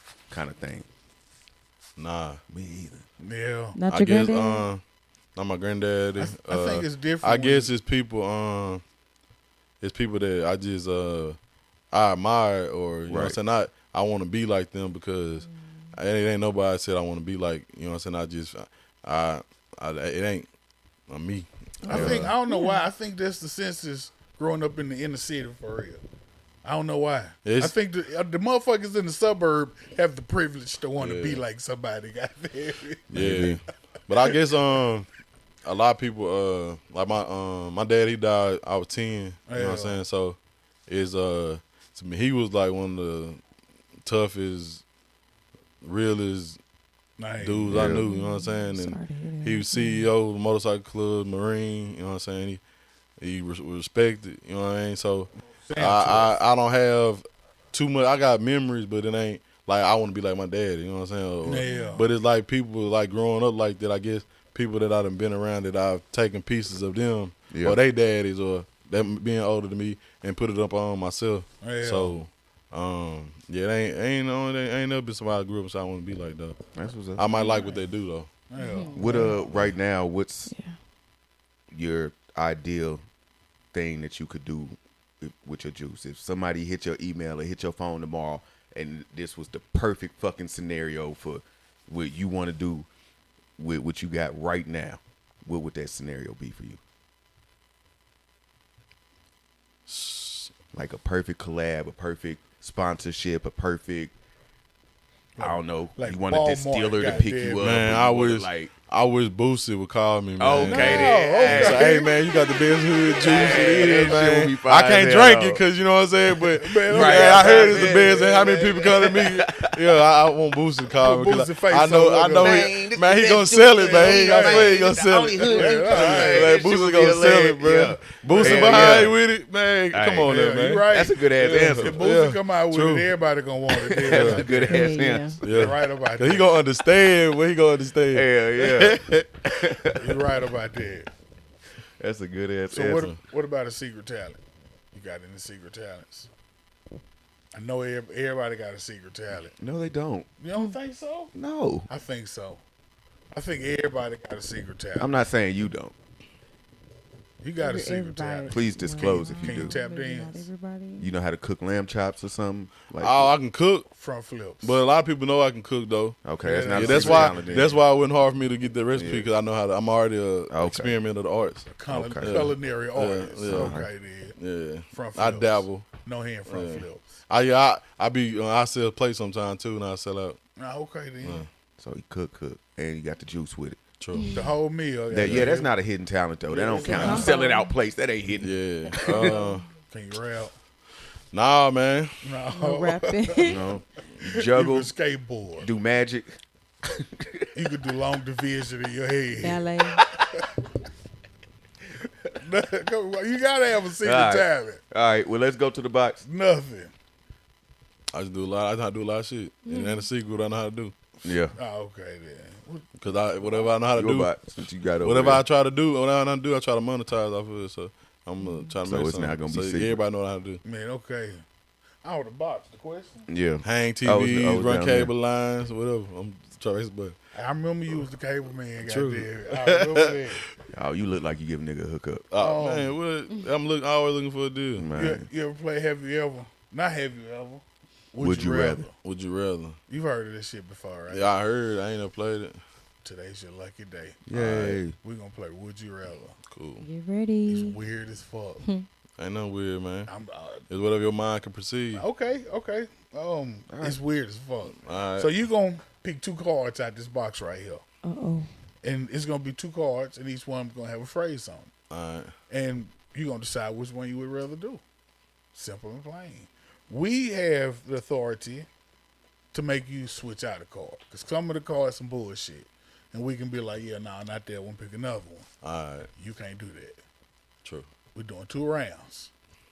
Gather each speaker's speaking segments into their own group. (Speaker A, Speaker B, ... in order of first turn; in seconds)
Speaker A: 0.3-0.9, 2.5-3.1, 13.1-13.4, 21.9-22.3, 33.1-33.6, 47.7-48.0, 67.5-67.8, 76.8-77.2, 78.9-80.5, 81.7-83.0, 83.7-92.9, 93.6-96.8, 100.7-104.1, 105.4-108.7, 110.4-112.0, 113.2-115.6, 116.9-119.7, 122.4-129.2, 129.9-130.3, 130.9-132.1, 133.9-135.7, 138.1-140.1, 142.0-143.1, 149.6-150.3, 151.3-151.9, 155.0-155.9, 158.5-159.8, 161.0-163.3, 166.2-167.8, 168.9-169.3, 170.5-171.0, 171.9-172.5, 173.5-173.9, 181.8-183.8, 185.1-189.5, 193.4-194.9, 195.6-196.4, 197.0-197.5, 204.0-206.2, 211.2-211.6, 213.9-215.4, 218.8-220.0, 223.3-225.1, 230.7-232.3, 234.8-235.3, 238.2-238.9, 244.3-244.9, 253.7-254.0
Speaker B: 2.0-2.4, 3.9-4.8, 5.4-8.8, 9.8-11.4, 11.9-20.5, 21.1-22.3, 27.4-27.7, 31.0-31.4, 33.1-35.1, 35.6-43.4, 44.0-44.8, 45.8-46.6, 47.4-52.6, 53.2-76.6, 77.2-78.3, 99.9-100.5, 107.6-133.1, 134.1-134.5, 135.4-139.7, 163.0-163.9, 164.6-171.7, 172.2-173.8, 174.4-175.9, 176.5-180.4, 181.2-181.5, 184.0-184.4, 185.2-185.5, 186.9-187.3, 188.3-189.7, 191.3-192.2, 208.1-211.0, 213.0-214.3, 215.0-220.6, 223.6-227.2, 228.8-230.2, 232.3-234.9, 239.0-239.8, 241.1-242.6, 244.3-244.8, 246.5-246.9, 249.2-250.1, 250.7-252.1, 254.7-255.3, 261.9-262.3, 275.6-276.1
Speaker C: 3.2-3.8, 6.2-7.7, 21.9-26.0, 26.6-33.2, 39.5-40.0, 47.2-47.9, 55.7-56.3, 61.4-62.1, 71.6-72.2, 78.5-79.4, 105.4-107.8, 110.6-112.2, 113.2-114.0, 116.6-118.9, 120.9-122.7, 123.9-124.8, 125.4-126.5, 128.2-129.1, 130.2-134.9, 135.4-136.6, 140.0-141.1, 142.7-144.4, 144.9-146.3, 147.5-149.6, 150.4-151.3, 151.9-152.6, 153.3-155.2, 157.4-160.5, 163.9-164.8, 166.4-167.7, 171.8-174.3, 174.9-177.1, 180.6-181.5, 184.3-185.7, 186.5-187.4, 189.2-190.5, 192.2-193.7, 194.3-195.7, 197.6-200.4, 202.3-204.8, 206.2-206.9, 211.6-212.9, 220.6-221.4, 222.0-223.3, 227.3-230.4, 232.4-233.0, 235.0-238.9, 239.9-241.3, 243.0-244.2, 244.8-246.4, 247.5-248.6, 250.1-250.7, 251.9-257.8, 258.8-261.7, 262.5-264.8, 265.5-268.7, 269.5-275.5, 276.2-277.0, 278.1-279.3
Speaker D: 3.8-4.7, 21.8-22.8, 47.9-50.1, 77.4-77.7, 78.6-79.3, 80.5-80.8, 134.6-135.4, 157.6-161.1, 184.1-184.6, 186.8-187.7, 192.5-193.7, 199.4-200.1, 209.7-210.1, 218.4-218.7, 246.8-247.8, 258.0-258.5